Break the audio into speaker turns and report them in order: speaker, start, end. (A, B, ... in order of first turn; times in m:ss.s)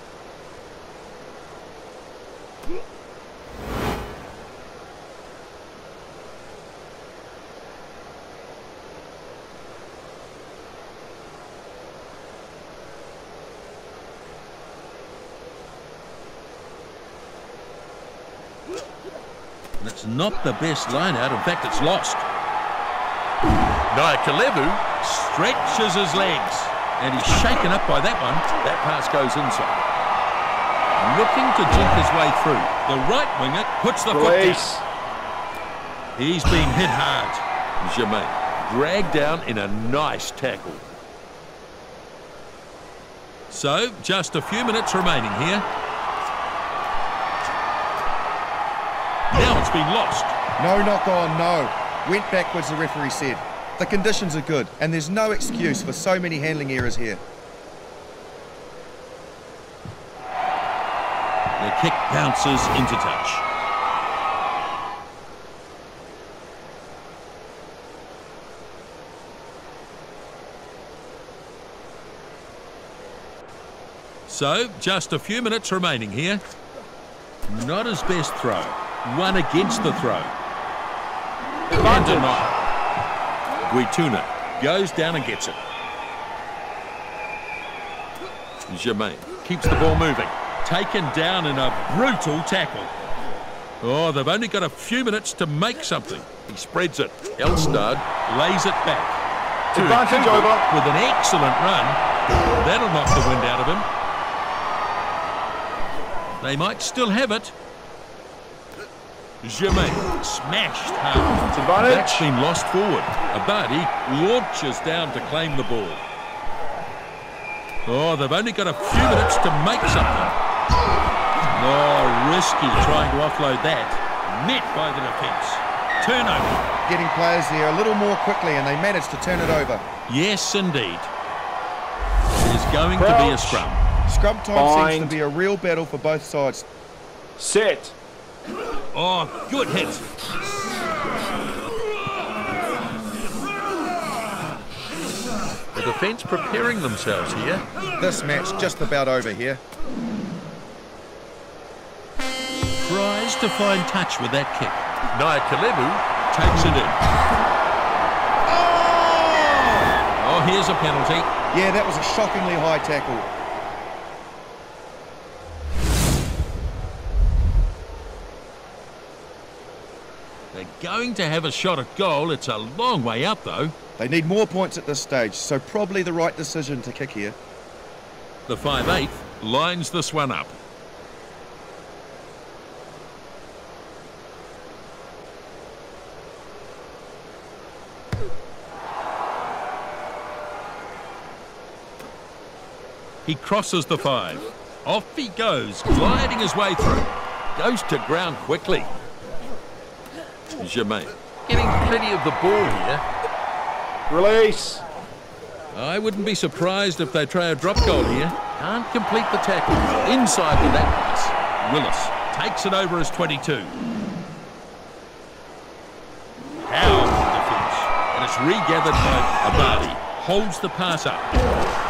0:19.8-0:22.3 A
0:23.9-0:29.8 A
0:31.0-0:34.7 A
0:34.1-0:34.8 B
0:36.2-0:40.9 A
0:43.5-0:45.6 A
0:49.3-0:50.4 A
0:50.6-0:57.2 C
1:01.6-1:03.4 A
1:14.3-1:16.4 A
1:17.5-1:20.3 A
1:21.7-1:22.4 B
1:21.7-1:22.5 A
1:23.7-1:25.6 A
1:28.7-1:32.9 A
1:33.8-1:39.2 A
1:39.7-1:40.7 B
1:39.7-1:42.0 A
1:42.6-1:43.9 A
1:46.4-1:47.6 A
1:49.4-1:56.0 A
1:51.5-1:52.3 B
1:57.9-2:00.4 A
2:01.6-2:06.6 A
2:06.9-2:09.8 C
2:10.1-2:11.1 A
2:12.4-2:13.8 A
2:13.0-2:13.6 B
2:14.1-2:16.7 C
2:14.6-2:15.2 B
2:17.4-2:18.0 B
2:18.9-2:20.0 A
2:25.7-2:27.6 A
2:28.0-2:29.6 C
2:32.8-2:37.0 A
2:38.5-2:39.9 C
2:40.2-2:41.3 A
2:41.5-2:43.3 C
2:50.5-2:53.7 A
2:54.0-2:57.4 C
2:58.5-3:00.6 A
3:13.3-3:18.9 A
3:20.6-3:23.0 A
3:24.1-3:24.8 B
3:25.7-3:33.8 A
3:36.6-3:41.4 A